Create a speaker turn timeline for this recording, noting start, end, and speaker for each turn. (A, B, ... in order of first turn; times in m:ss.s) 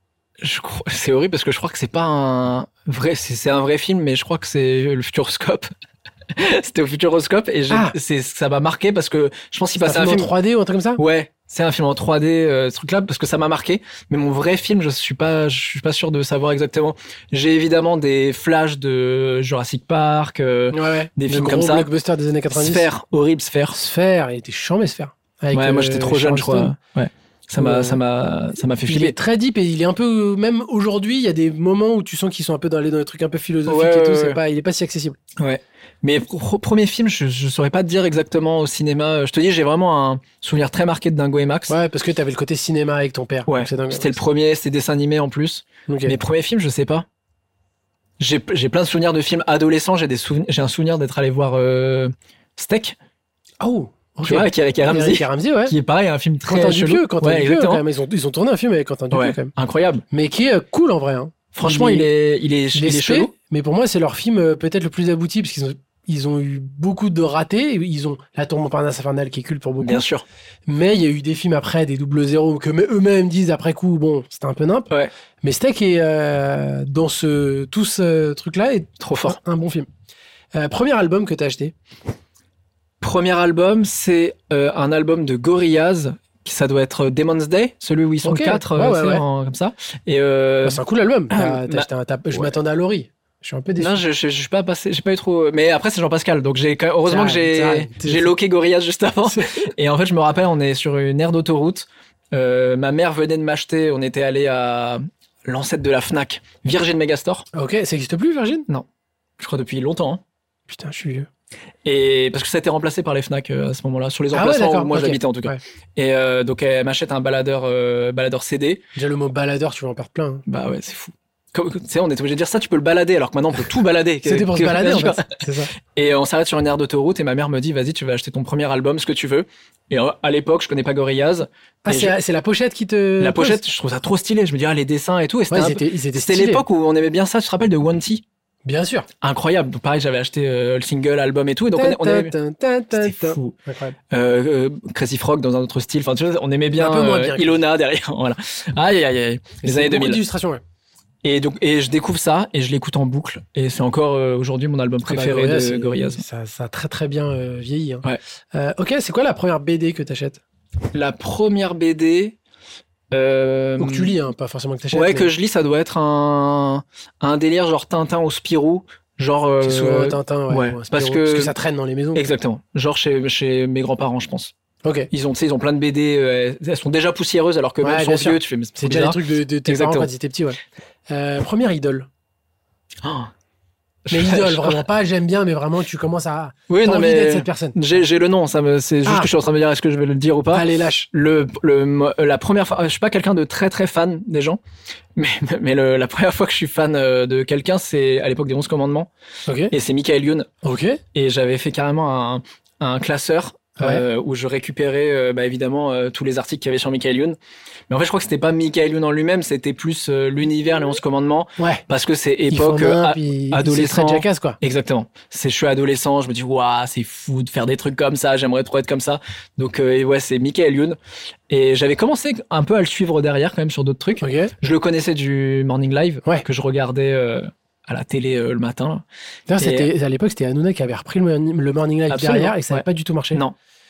0:00.4-0:05.7 A
0:06.3-0:10.3 A
0:07.7-0:07.9 B
0:09.8-0:11.0 B
0:11.0-0:21.9 A
0:20.7-0:22.8 B
0:22.5-0:23.8 A
0:23.7-0:26.7 B
0:25.5-0:29.1 A
0:27.6-0:28.0 B
0:28.8-0:35.2 B
0:33.6-0:34.4 A
0:35.4-0:41.7 A
0:41.7-0:44.2 B
0:43.5-0:47.0 A
0:45.9-0:46.2 B
0:48.2-0:53.0 A
0:53.6-0:55.7 B
0:54.2-0:57.8 A
0:56.4-0:59.5 B
0:59.1-1:00.0 A
1:00.1-1:02.1 B
1:01.5-1:03.3 A
1:02.7-1:10.0 B
1:09.8-1:10.2 A
1:10.7-1:14.9 B
1:15.4-1:19.9 B
1:19.0-1:19.4 A
1:20.5-1:21.7 B
1:23.0-1:32.5 A
1:28.2-1:29.2 B
1:30.6-1:34.0 B
1:33.8-1:47.4 A
1:37.0-1:38.3 B
1:39.3-1:39.6 B
1:47.5-1:48.7 B
1:49.4-1:50.2 A
1:50.7-1:51.3 B
1:51.8-1:58.8 A
1:54.3-1:55.6 B
1:59.0-2:00.4 B
2:00.4-2:12.1 A
2:04.2-2:05.7 B
2:11.8-2:13.6 B
2:13.2-2:18.2 A
2:15.5-2:16.6 B
2:18.6-2:19.1 B
2:19.2-2:22.3 A
2:21.7-2:24.0 B
2:22.9-2:23.5 A
2:24.1-2:30.2 A
2:26.8-2:27.6 B
2:29.6-2:30.6 B
2:31.2-2:36.2 A
2:35.0-2:40.4 B
2:40.9-2:42.4 A
2:43.1-2:44.2 A
2:43.8-2:45.3 B
2:44.9-2:51.5 A
2:49.6-2:52.2 B
2:52.1-2:54.5 A
2:54.8-2:55.1 B
2:55.1-3:00.1 A
2:57.8-3:02.1 B
3:03.0-3:03.3 A
3:04.0-3:04.8 A
3:04.1-3:07.8 B
3:06.7-3:14.6 A
3:10.5-3:11.1 B
3:15.2-3:19.1 A
3:19.5-3:19.7 B
3:19.7-3:20.5 A
3:20.6-3:21.0 B
3:21.1-3:27.4 A
3:23.8-3:24.0 B
3:27.9-3:41.0 A
3:32.5-3:34.6 B
3:41.5-3:49.0 A
3:44.2-3:44.5 B
3:49.5-3:53.4 B
3:49.6-3:49.9 A
3:52.1-3:53.5 A